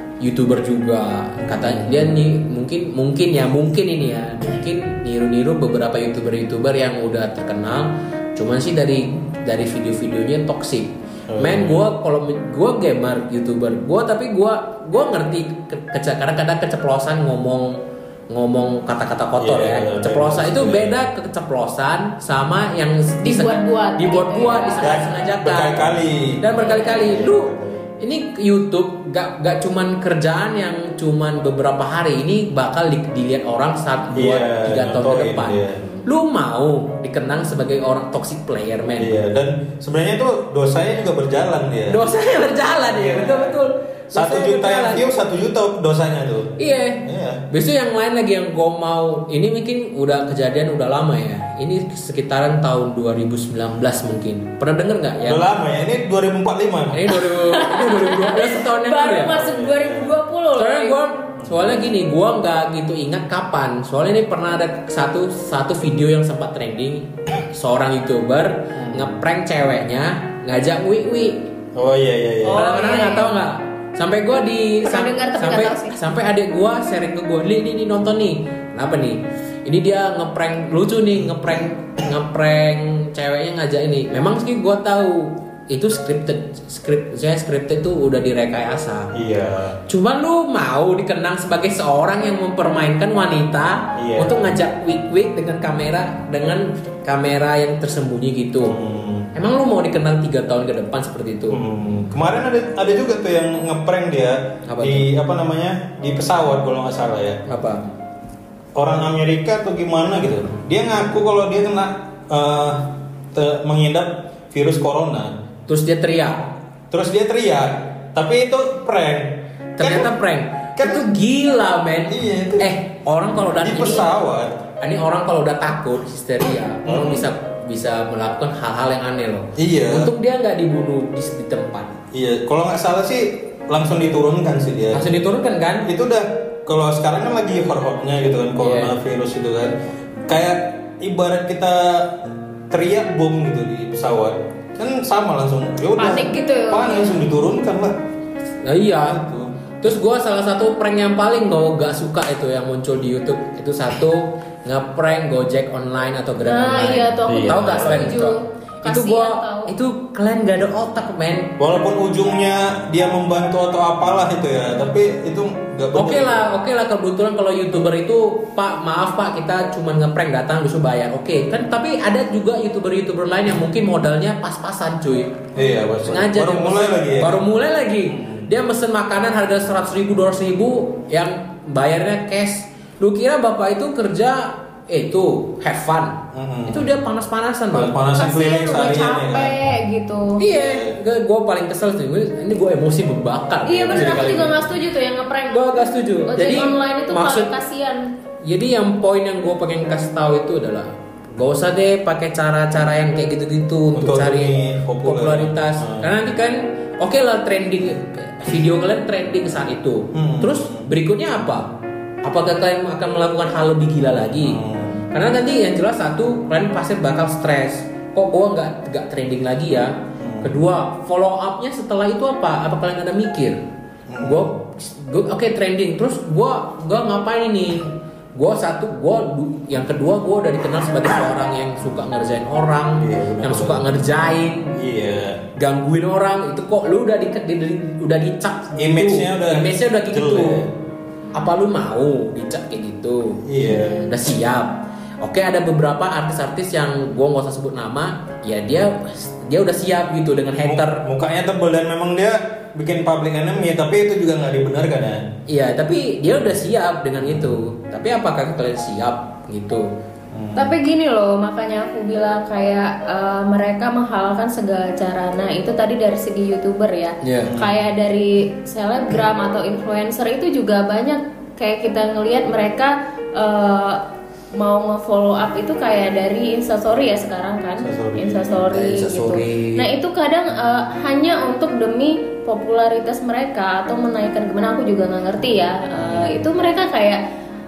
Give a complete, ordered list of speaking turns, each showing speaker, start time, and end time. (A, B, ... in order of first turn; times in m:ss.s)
0:00.2-0:39.2 A
0:01.4-0:02.1 B
0:11.3-0:11.9 B
0:19.4-0:21.1 B
0:23.2-0:25.1 C
0:24.8-0:27.8 B
0:26.6-0:27.2 C
0:34.1-0:35.8 B
0:35.8-0:36.1 C
0:39.0-0:42.1 B
0:41.9-0:45.2 A
0:42.9-0:43.6 B
0:44.1-0:47.4 B
0:46.6-0:55.4 A
0:55.2-0:57.2 B
0:56.9-0:59.4 A
0:57.3-1:01.0 C
0:59.3-1:00.2 B
1:00.6-1:11.5 A
1:01.4-1:01.6 B
1:08.7-1:09.1 B
1:11.8-1:12.6 B
1:12.4-1:13.3 C
1:12.5-1:29.1 A
1:14.8-1:16.0 C
1:29.1-1:29.8 B
1:29.9-1:38.8 A
1:34.0-1:34.6 B
1:38.6-1:39.3 B
1:39.4-1:41.6 A
1:41.5-1:47.4 B
1:44.7-1:45.1 A
1:47.5-1:47.9 A
1:48.8-1:55.3 B
1:55.7-1:56.5 A
1:56.9-2:00.1 B
1:59.8-2:04.1 A
2:00.8-2:01.1 B
2:02.1-2:02.7 B
2:03.6-2:04.6 B
2:04.8-2:12.0 A
2:06.8-2:07.3 B
2:09.6-2:10.1 B
2:12.1-2:15.2 B
2:14.9-2:15.9 A
2:15.8-2:19.8 B
2:18.6-2:18.9 A
2:20.3-2:28.0 B
2:26.0-2:27.2 C
2:28.6-2:29.2 A
2:29.0-2:29.5 B
2:29.8-2:41.6 A
2:36.4-2:39.7 C
2:37.3-2:38.1 B
2:41.6-2:46.4 B
2:45.9-2:55.5 A
2:55.6-2:57.5 B
2:56.0-3:08.0 A
2:58.1-2:58.5 B
3:06.3-3:06.9 B
3:07.7-3:09.6 B
3:08.1-3:10.4 C
3:10.4-3:14.6 A
3:10.5-3:11.0 B
3:13.7-3:18.1 C
3:14.0-3:14.5 B
3:15.5-3:17.5 A
3:18.4-3:31.7 A
3:24.0-3:26.1 B
3:30.1-3:30.9 B
3:32.2-3:34.6 A
3:34.4-3:35.0 B
3:35.1-3:43.6 A
3:40.2-3:40.6 B
3:44.1-3:44.4 B
3:44.2-3:54.7 A
3:53.0-3:53.9 B
3:54.8-3:55.4 B
3:55.6-4:00.6 A
3:58.8-4:00.7 B
4:01.3-4:11.0 A
4:03.4-4:04.1 B
4:10.6-4:15.2 B
4:15.5-4:19.9 A
4:17.2-4:17.5 B
4:20.3-4:20.8 B
4:20.6-4:34.0 C
4:27.2-4:27.5 A
4:27.4-4:27.8 B
4:34.6-4:47.2 C
4:37.8-4:38.8 B
4:38.6-4:39.9 A
4:46.0-4:46.5 B